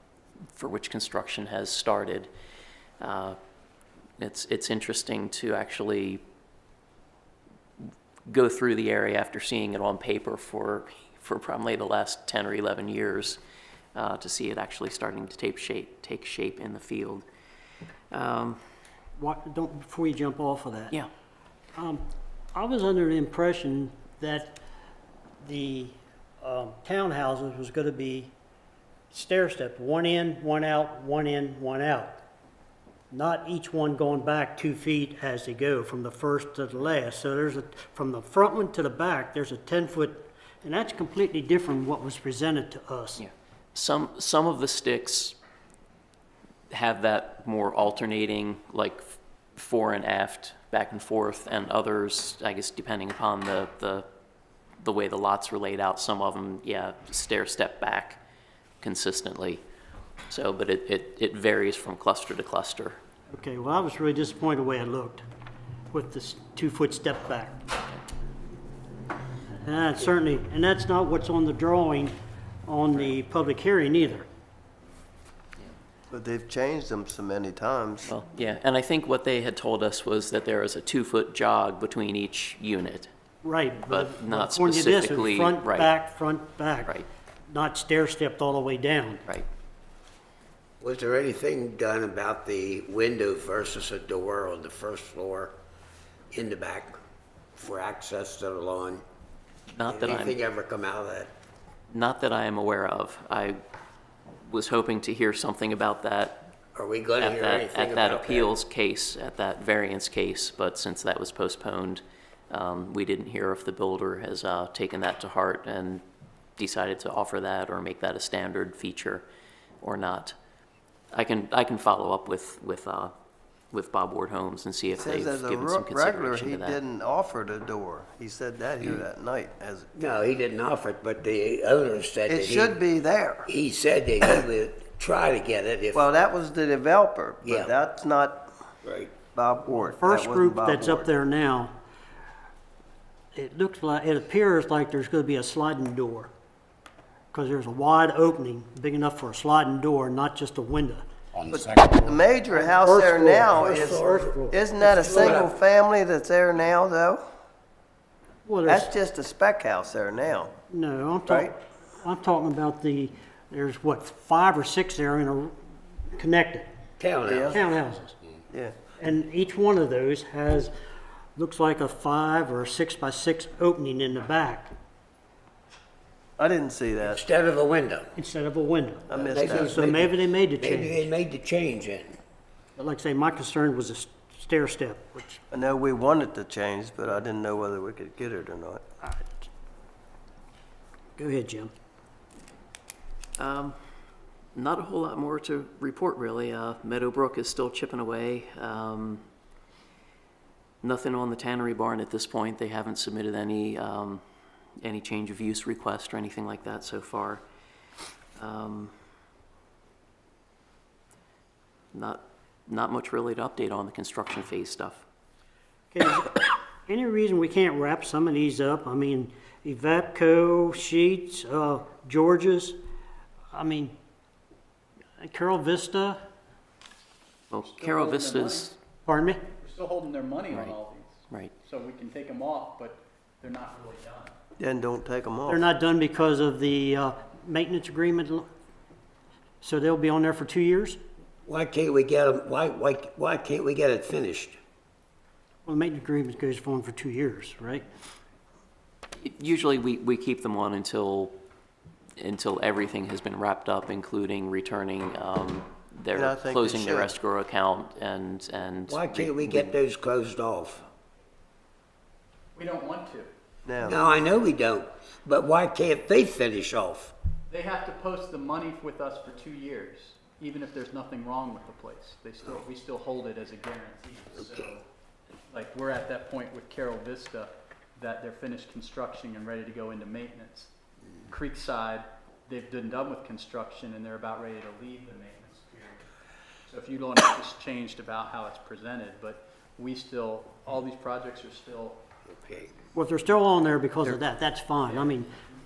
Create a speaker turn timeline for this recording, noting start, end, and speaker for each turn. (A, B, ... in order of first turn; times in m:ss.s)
0:00.5-0:02.3 A
0:03.0-0:03.4 A
0:04.2-0:06.2 A
0:08.3-0:13.4 A
0:13.9-0:17.2 A
0:18.1-0:18.6 A
0:19.2-0:20.9 B
0:22.5-0:24.6 B
0:25.4-0:28.3 B
0:29.1-0:32.1 B
0:33.1-0:43.2 B
0:43.2-0:45.4 A
0:46.7-0:54.0 A
0:54.8-0:58.2 A
0:58.8-0:59.6 A
1:00.3-1:03.0 A
1:03.3-1:05.2 B
1:05.9-1:07.6 B
1:09.6-1:12.1 B
1:12.7-1:14.2 B
1:16.1-1:18.1 C
1:18.1-1:23.1 A
1:23.4-1:26.9 B
1:23.8-1:25.9 A
1:27.5-1:29.2 B
1:30.8-1:35.5 D
1:36.3-1:37.0 D
1:37.5-1:39.0 D
1:39.7-1:40.4 A
1:39.9-1:41.3 D
1:41.9-1:43.6 A
1:44.4-1:46.5 A
1:46.7-1:48.5 D
1:47.2-1:56.0 A
1:56.6-1:59.2 A
1:59.8-2:00.4 A
2:01.1-2:03.1 A
2:03.7-2:06.8 A
2:05.0-2:09.9 C
2:09.9-2:12.8 D
2:12.3-2:13.5 C
2:13.5-2:16.1 D
2:15.9-2:18.5 C
2:17.4-2:17.7 D
2:18.8-2:19.2 D
2:19.3-2:21.1 C
2:20.0-2:21.7 B
2:23.3-2:26.3 B
2:27.3-2:31.0 B
2:31.4-2:31.9 D
2:31.5-2:37.2 C
2:32.5-2:33.7 B
2:33.5-2:35.5 D
2:38.4-2:38.9 B
2:38.6-2:40.5 C
2:40.7-2:45.5 B
2:41.2-2:41.5 C
2:46.1-2:46.7 B
2:47.0-2:47.8 D
2:47.3-2:47.6 C
2:47.7-2:48.1 B
2:48.5-2:48.7 C
2:49.0-2:50.7 B
2:51.4-2:54.7 B
2:56.4-2:57.2 C
2:57.0-2:58.1 D
2:58.2-2:59.1 B
2:59.1-2:59.9 C
2:59.1-3:02.2 D
2:59.9-3:00.9 B
3:02.8-3:05.4 B
3:05.5-3:08.8 C
3:11.2-3:11.7 B
3:13.4-3:13.8 A
3:14.5-3:19.2 A
3:20.8-3:24.2 A
3:24.8-3:27.4 A
3:28.4-3:28.9 A
3:31.9-3:35.0 A
3:35.9-3:42.7 B
3:43.5-3:43.9 B
3:45.2-3:46.2 B
3:47.5-3:48.7 A
3:47.6-3:48.7 E
3:49.0-3:49.4 B
3:49.6-3:54.3 E
3:54.6-3:55.6 C
3:55.5-3:58.4 B
3:59.6-4:01.0 B
4:01.4-4:04.6 D
4:05.6-4:07.8 B
4:09.2-4:11.4 A
4:12.2-4:19.8 A
4:16.1-4:17.1 C
4:18.9-4:20.8 D
4:22.5-4:23.3 E
4:23.6-4:24.0 C
4:23.8-4:27.1 D
4:27.5-4:34.8 E
4:35.5-4:40.7 E
4:41.3-4:46.0 E
4:46.6-4:52.0 E
4:52.3-4:52.7 D
4:52.9-4:55.2 B
4:54.8-4:55.2 E